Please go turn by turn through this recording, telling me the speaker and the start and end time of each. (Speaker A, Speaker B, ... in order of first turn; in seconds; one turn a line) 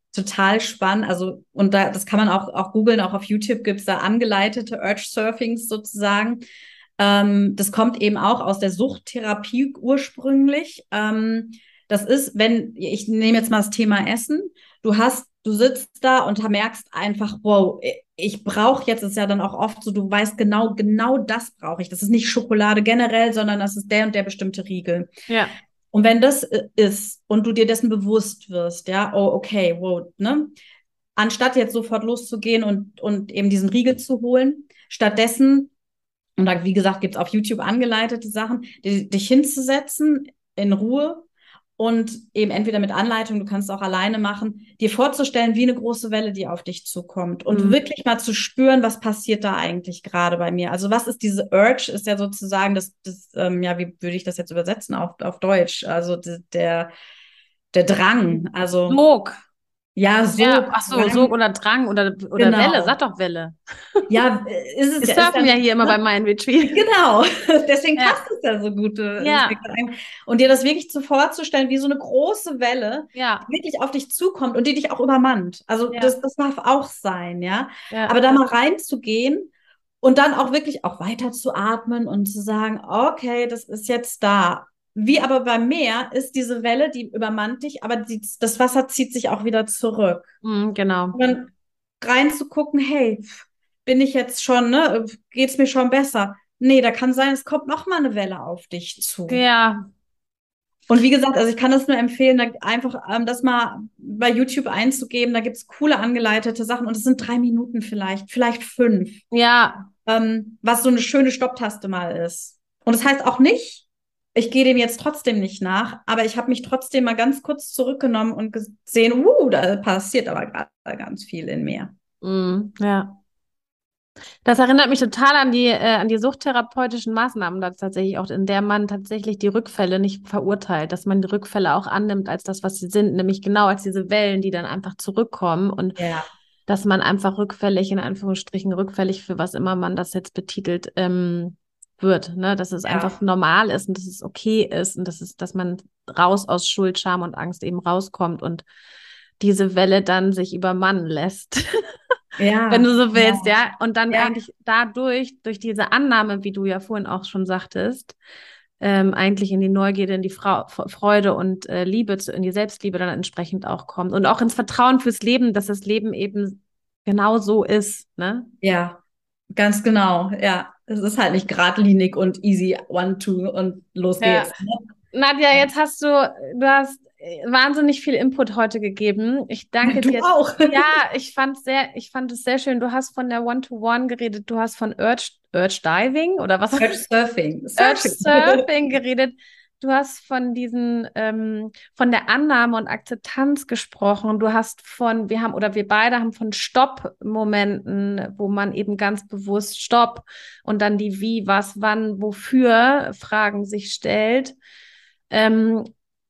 Speaker A: 0.1-6.4
Speaker A: 7.0-25.1
Speaker B: 25.3-25.5
Speaker A: 25.9-30.5
Speaker A: 31.2-35.7
Speaker A: 36.4-56.9
Speaker B: 47.5-47.8
Speaker A: 57.7-59.0
Speaker B: 58.9-59.4
Speaker A: 60.0-61.3
Speaker B: 60.4-64.0
Speaker A: 62.4-63.0
Speaker A: 64.1-65.9
Speaker B: 65.0-66.9
Speaker A: 66.7-79.5
Speaker B: 68.0-68.2
Speaker B: 69.2-69.6
Speaker B: 73.1-73.5
Speaker B: 75.9-76.2
Speaker B: 77.9-78.4
Speaker A: 80.0-90.3
Speaker B: 90.4-91.2
Speaker A: 91.1-99.4
Speaker B: 99.3-99.9
Speaker A: 100.9-109.2
Speaker B: 109.3-109.9
Speaker A: 110.0-121.9
Speaker B: 122.2-123.2
Speaker B: 124.4-136.0
Speaker A: 136.0-136.3
Speaker B: 136.7-148.7
Speaker A: 142.8-143.1
Speaker B: 149.4-151.6
Speaker A: 152.4-153.5
Speaker B: 152.7-158.2
Speaker B: 158.8-168.5
Speaker A: 168.6-169.0
Speaker A: 169.5-174.8
Speaker B: 174.2-174.5
Speaker B: 175.1-187.0
Speaker A: 179.8-180.8
Speaker A: 186.8-188.6
Speaker B: 187.8-204.6
Speaker B: 205.3-205.9